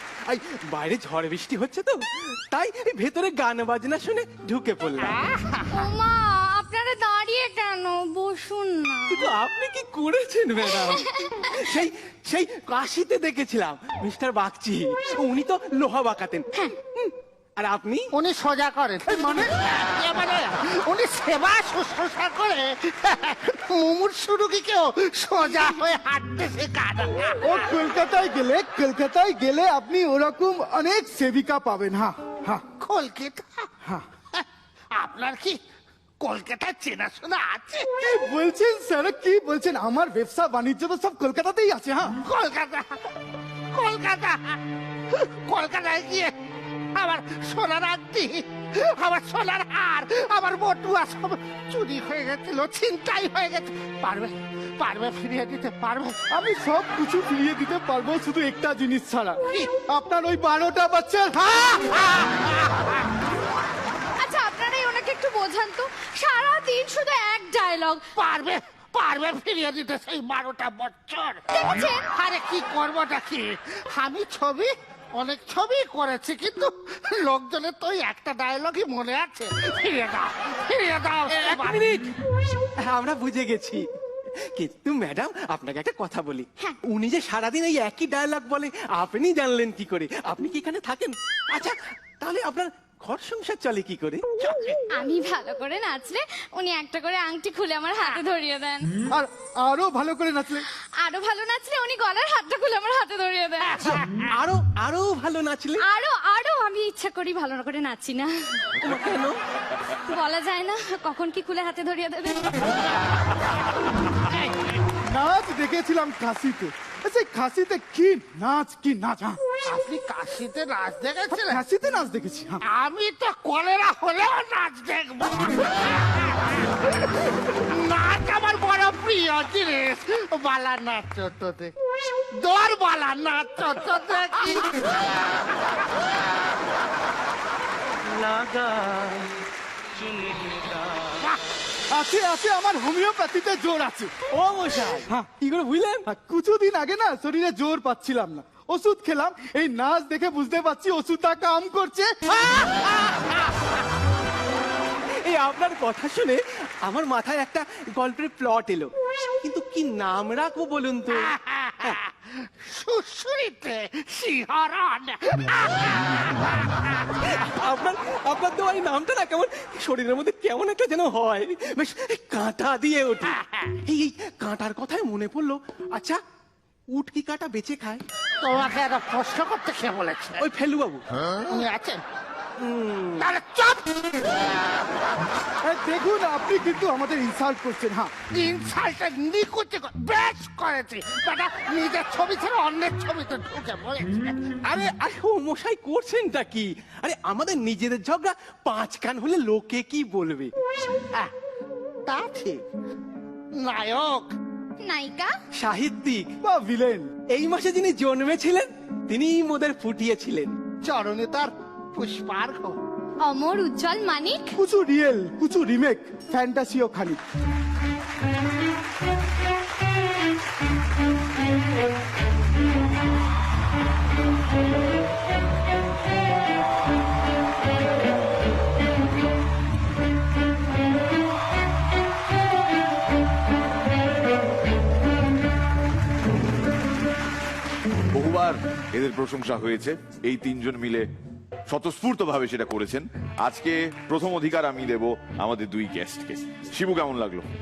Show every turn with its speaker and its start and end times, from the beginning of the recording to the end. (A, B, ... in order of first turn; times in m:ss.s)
0:00.2-0:05.2 A
0:05.0-0:05.7 B
0:05.7-0:09.3 C
0:09.1-0:11.0 A
0:10.7-0:11.8 C
0:11.7-0:16.4 A
0:17.0-0:18.1 A
0:18.1-0:27.4 B
0:27.4-0:32.6 D
0:32.8-0:33.7 B
0:34.3-0:35.6 B
0:36.2-0:38.0 B
0:38.0-0:42.2 D
0:42.2-0:43.0 B
0:43.7-0:44.6 B
0:45.1-0:46.3 B
0:46.9-0:56.2 B
0:56.3-1:02.0 D
1:02.1-1:02.9 B
1:04.2-1:08.1 C
1:08.2-1:11.4 B
1:11.5-1:12.1 C
1:12.1-1:21.8 B
1:21.3-1:22.1 A
1:22.8-1:23.9 A
1:24.5-1:34.2 A
1:34.9-1:39.0 C
1:39.1-1:40.6 D
1:41.0-1:44.0 C
1:43.8-1:45.8 A
1:45.8-1:48.9 C
1:48.8-1:49.4 A
1:50.0-1:52.6 C
1:55.1-1:59.4 D
1:59.7-2:01.6 B
2:01.3-2:02.6 D
2:02.6-2:06.6 B
2:07.7-2:11.7 B
2:12.3-2:15.2 B
2:18.2-2:19.0 A
2:21.9-2:24.1 D
2:24.3-2:26.0 A
2:26.1-2:32.3 D
2:35.2-2:38.9 A
2:39.4-2:42.0 A
2:41.3-2:46.5 B
2:47.2-2:56.2 A
2:53.4-2:53.7 B
2:56.9-2:58.0 A
2:58.4-3:00.4 B
3:00.4-3:01.0 A
3:01.5-3:02.0 B
3:02.6-3:03.2 A
3:03.2-3:04.3 B
3:05.6-3:08.1 D
3:08.3-3:14.4 B
3:14.6-3:20.5 A
3:22.0-3:22.6 B
3:23.5-3:24.3 B
3:24.8-3:25.3 C
3:25.6-3:26.3 A
3:26.4-3:27.2 D
3:27.3-3:30.5 A
3:30.8-3:32.8 B
3:33.2-3:34.6 C
3:34.5-3:37.2 D
3:58.1-4:01.0 E
4:01.7-4:07.4 E